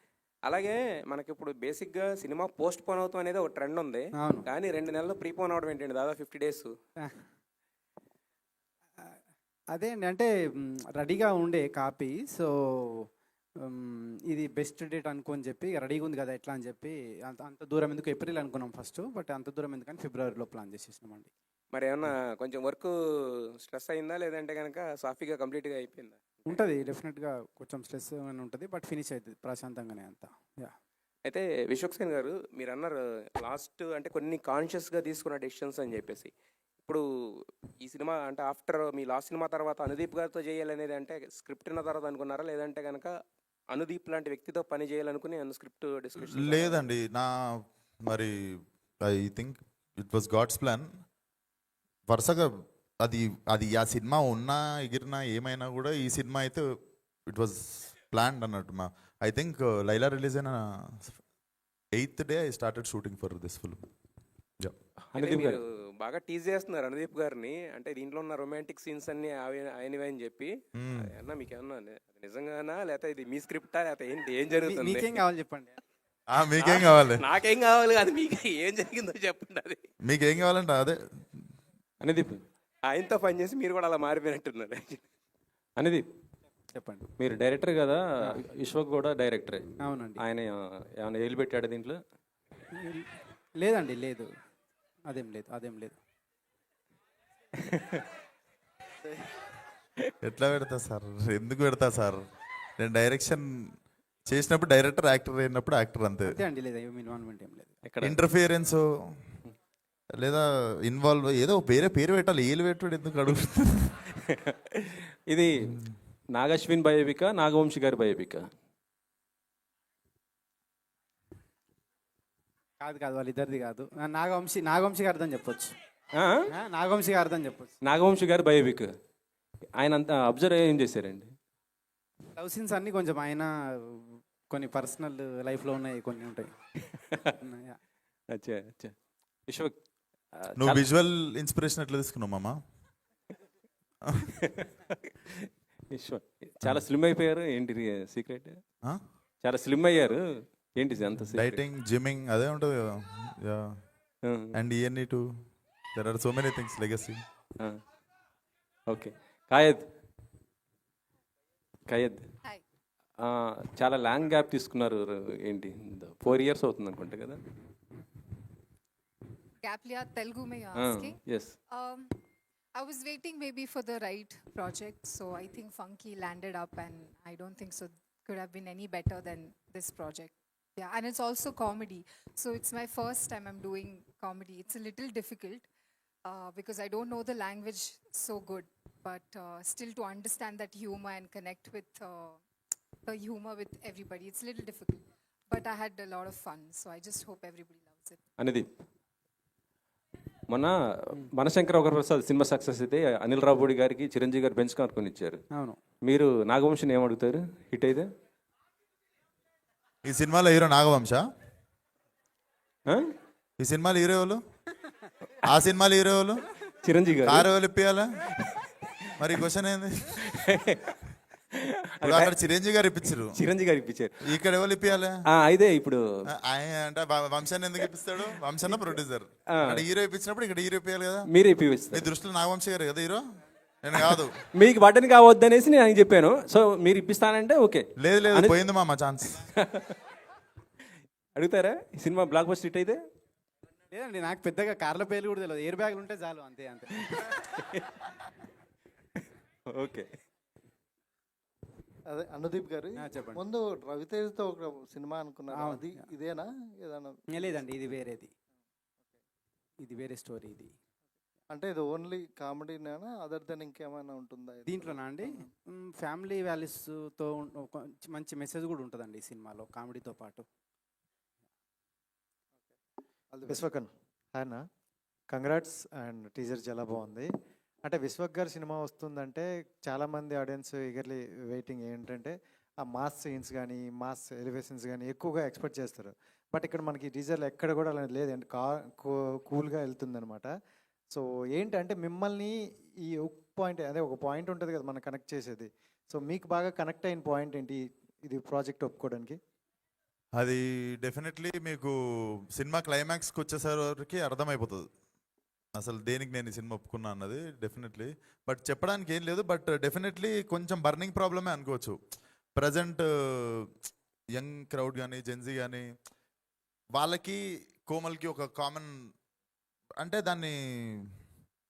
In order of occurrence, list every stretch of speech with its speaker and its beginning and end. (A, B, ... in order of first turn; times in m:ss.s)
0:00.5-0:06.7 A
0:04.2-0:04.5 B
0:09.7-0:13.1 B
0:13.6-0:21.3 B
0:21.7-0:22.9 A
0:23.6-0:26.6 A
0:26.5-0:30.8 B
0:31.2-0:36.3 A
0:37.8-0:43.1 A
0:43.7-0:46.8 A
0:46.2-0:50.9 C
0:52.1-0:56.7 C
0:57.3-1:01.2 C
1:01.9-1:03.8 C
1:05.1-1:05.6 D
1:05.2-1:15.1 A
1:10.8-1:11.1 C
1:14.6-1:15.8 B
1:16.3-1:17.2 C
1:16.6-1:19.8 A
1:20.0-1:21.0 C
1:22.0-1:22.4 D
1:22.9-1:25.0 A
1:25.8-1:26.0 D
1:26.7-1:27.1 B
1:27.2-1:29.6 D
1:29.8-1:30.2 B
1:30.2-1:32.0 D
1:32.7-1:34.3 B
1:35.0-1:36.0 B
1:40.2-1:42.2 C
1:42.8-1:43.8 C
1:44.3-1:46.4 C
1:46.3-1:47.7 B
1:47.9-1:48.2 D
1:48.0-1:49.2 C
1:50.2-1:53.9 C
1:54.5-1:55.8 D
1:55.7-1:55.9 C
1:56.3-1:58.4 D
2:02.8-2:05.7 B
2:06.5-2:07.7 B
2:07.8-2:08.9 D
2:09.8-2:11.3 D
2:12.4-2:16.5 B
2:17.4-2:17.8 B
2:18.3-2:18.9 D
2:19.5-2:19.7 D
2:20.4-2:20.8 D
2:20.6-2:22.6 C
2:24.5-2:25.0 D
2:25.9-2:28.6 D
2:29.4-2:30.2 D
2:30.8-2:31.6 D
2:31.3-2:33.8 C
2:34.3-2:34.5 D
2:34.5-2:35.2 C
2:35.9-2:37.2 C
2:38.9-2:39.8 D
2:41.9-2:42.2 D
2:43.2-2:47.4 D
2:49.6-2:51.2 E
2:50.8-2:51.5 D
2:51.7-2:52.2 E
2:52.8-3:05.7 E
3:06.2-3:12.4 E
3:13.0-3:18.2 E
3:18.4-3:18.7 D
3:20.5-3:25.4 D
3:25.5-3:25.8 B
3:26.1-3:28.1 D
3:30.0-3:31.2 C
3:33.6-3:34.4 C
3:35.4-3:36.4 C
3:36.8-3:37.5 D
3:37.2-3:38.1 C
3:39.2-3:40.3 C
3:40.3-3:41.0 D
3:42.0-3:42.3 D
3:42.0-3:43.4 C
3:43.4-3:44.3 D
3:44.2-3:45.2 C
3:45.3-3:46.0 D
3:46.3-3:51.3 C
3:48.7-3:48.9 D
3:51.3-3:52.0 D
3:51.9-3:53.2 C
3:53.8-3:54.3 C
3:54.0-3:58.6 D
3:58.0-3:59.4 C
3:59.6-3:59.9 D
4:01.4-4:03.0 D
4:03.9-4:07.3 B
4:07.2-4:08.0 D
4:09.7-4:10.0 D
4:12.1-4:17.6 F
4:13.0-4:13.4 B
4:15.5-4:16.0 B
4:17.3-4:18.3 B
4:19.8-4:20.7 B
4:21.5-4:25.4 F
4:24.7-4:30.4 B
4:33.3-4:33.6 F
4:33.5-4:34.6 G
4:35.3-4:37.3 G
4:37.8-4:50.5 G
4:51.1-4:59.4 G
5:00.3-5:04.9 C
5:05.8-5:12.0 C
5:12.6-5:13.7 C
5:14.3-5:15.9 C
5:17.0-5:19.1 C
5:20.0-5:21.1 C